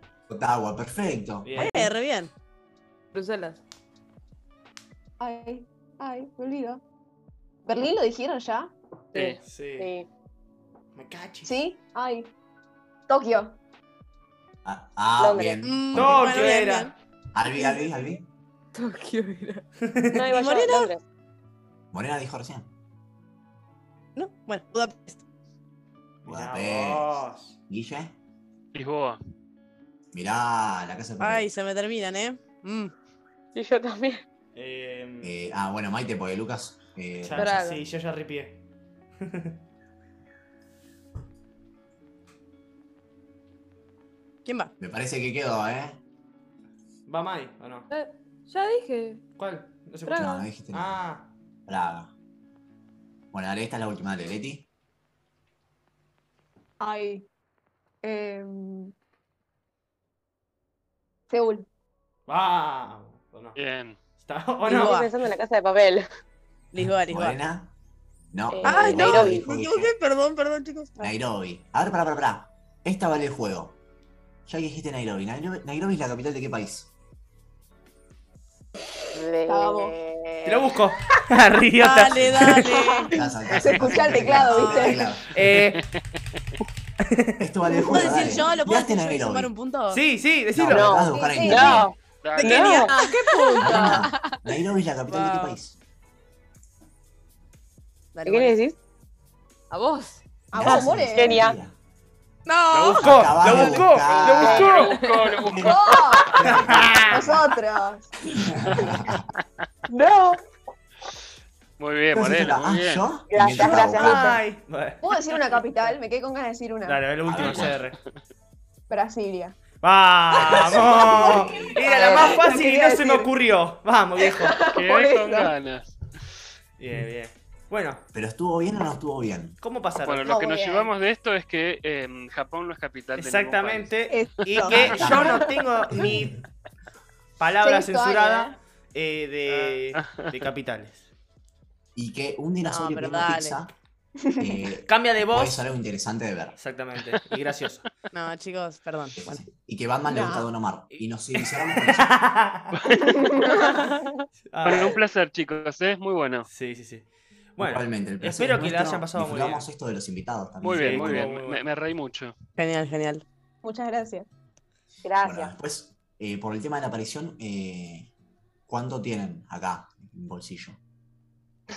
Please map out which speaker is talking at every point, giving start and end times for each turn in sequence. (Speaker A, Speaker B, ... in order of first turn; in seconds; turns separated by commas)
Speaker A: 0.3-1.5, Speaker B: 1.4-1.9, Speaker C: 1.6-2.3, Speaker D: 3.1-3.6, Speaker E: 5.2-6.8, Speaker E: 7.6-8.7, Speaker F: 9.1-9.4, Speaker G: 9.1-10.1, Speaker B: 9.4-9.9, Speaker B: 10.9-11.5, Speaker E: 11.4-12.3, Speaker E: 13.1-13.6, Speaker A: 14.6-16.4, Speaker G: 15.2-15.6, Speaker C: 15.6-16.9, Speaker B: 15.9-16.9, Speaker A: 17.3-18.3, Speaker D: 18.7-19.6, Speaker B: 19.8-20.3, Speaker G: 20.1-21.0, Speaker C: 20.3-20.9, Speaker A: 21.9-22.7, Speaker C: 24.1-25.2, Speaker B: 26.2-27.6, Speaker A: 26.2-28.1, Speaker F: 28.7-29.2, Speaker A: 30.1-31.5, Speaker C: 31.2-32.9, Speaker G: 33.5-34.2, Speaker B: 34.5-35.4, Speaker A: 35.2-37.5, Speaker B: 37.2-38.6, Speaker D: 37.4-37.9, Speaker B: 39.2-39.5, Speaker C: 44.5-44.7, Speaker A: 44.8-46.0, Speaker B: 47.1-47.9, Speaker D: 47.9-49.2, Speaker B: 49.4-51.3, Speaker D: 50.0-50.5, Speaker A: 50.1-51.0, Speaker A: 51.7-52.1, Speaker A: 53.3-54.7, Speaker E: 56.8-57.3, Speaker E: 58.0-58.9, Speaker E: 61.3-61.7, Speaker B: 62.3-63.6, Speaker F: 63.6-64.0, Speaker B: 64.2-65.0, Speaker C: 64.7-65.1, Speaker G: 64.7-66.1, Speaker C: 66.7-67.4, Speaker A: 67.1-67.7, Speaker A: 68.3-69.9, Speaker G: 68.5-69.5, Speaker C: 68.6-71.1, Speaker A: 71.0-73.8, Speaker A: 74.5-76.9, Speaker G: 79.1-80.8, Speaker E: 79.5-79.9, Speaker B: 80.5-82.7, Speaker C: 81.8-83.2, Speaker A: 82.1-82.4, Speaker E: 82.6-85.0, Speaker A: 83.1-85.3, Speaker B: 85.3-85.8, Speaker F: 85.4-86.0, Speaker B: 87.1-87.4, Speaker A: 87.4-89.5, Speaker C: 87.8-90.0, Speaker B: 89.9-91.0, Speaker A: 90.5-91.9, Speaker G: 90.7-93.0, Speaker E: 91.1-91.8, Speaker F: 92.2-92.8, Speaker C: 92.4-94.3, Speaker D: 92.9-94.1, Speaker A: 93.6-95.8, Speaker C: 95.1-95.6, Speaker C: 98.1-98.6, Speaker G: 98.2-98.8, Speaker D: 99.7-100.2, Speaker E: 100.5-101.3, Speaker A: 100.5-101.8, Speaker G: 100.7-101.6, Speaker C: 102.5-103.6, Speaker B: 102.7-104.9, Speaker A: 103.0-104.7, Speaker G: 104.0-105.0, Speaker F: 104.4-106.9, Speaker D: 104.8-105.3, Speaker A: 105.5-105.7, Speaker E: 105.6-106.4, Speaker A: 106.3-107.5, Speaker B: 106.4-107.2, Speaker E: 107.0-108.1, Speaker A: 108.4-109.3, Speaker F: 108.7-109.1, Speaker G: 109.9-110.4, Speaker F: 111.8-113.1, Speaker A: 112.1-114.4, Speaker G: 113.3-114.4, Speaker B: 113.5-115.0, Speaker E: 115.0-117.0, Speaker B: 116.8-118.0, Speaker A: 117.3-117.8, Speaker E: 118.9-119.6, Speaker B: 119.8-124.7, Speaker E: 120.4-123.3, Speaker A: 120.4-121.8, Speaker G: 121.9-122.4, Speaker E: 124.2-125.5, Speaker F: 124.7-126.4, Speaker B: 126.8-128.0, Speaker A: 128.1-129.6, Speaker B: 129.6-130.3, Speaker F: 130.0-135.1, Speaker E: 130.2-130.9, Speaker B: 133.2-136.4, Speaker E: 134.1-135.5, Speaker A: 134.7-136.4, Speaker B: 137.4-141.0, Speaker E: 137.6-138.6, Speaker F: 139.5-140.5, Speaker A: 142.0-143.7, Speaker C: 142.6-143.6, Speaker E: 144.2-144.5, Speaker A: 144.4-146.6, Speaker B: 144.9-145.7, Speaker B: 146.6-147.9, Speaker C: 148.1-149.2, Speaker A: 149.2-152.1, Speaker E: 150.1-150.5, Speaker B: 150.9-152.8, Speaker F: 152.8-153.3, Speaker E: 153.1-153.8, Speaker B: 154.4-155.0, Speaker F: 154.6-156.5, Speaker B: 156.5-159.7, Speaker A: 157.6-161.3, Speaker F: 160.6-162.4, Speaker B: 160.8-161.7, Speaker C: 162.6-163.2, Speaker E: 163.6-164.3, Speaker G: 165.0-165.5, Speaker A: 165.2-168.1, Speaker A: 168.7-170.8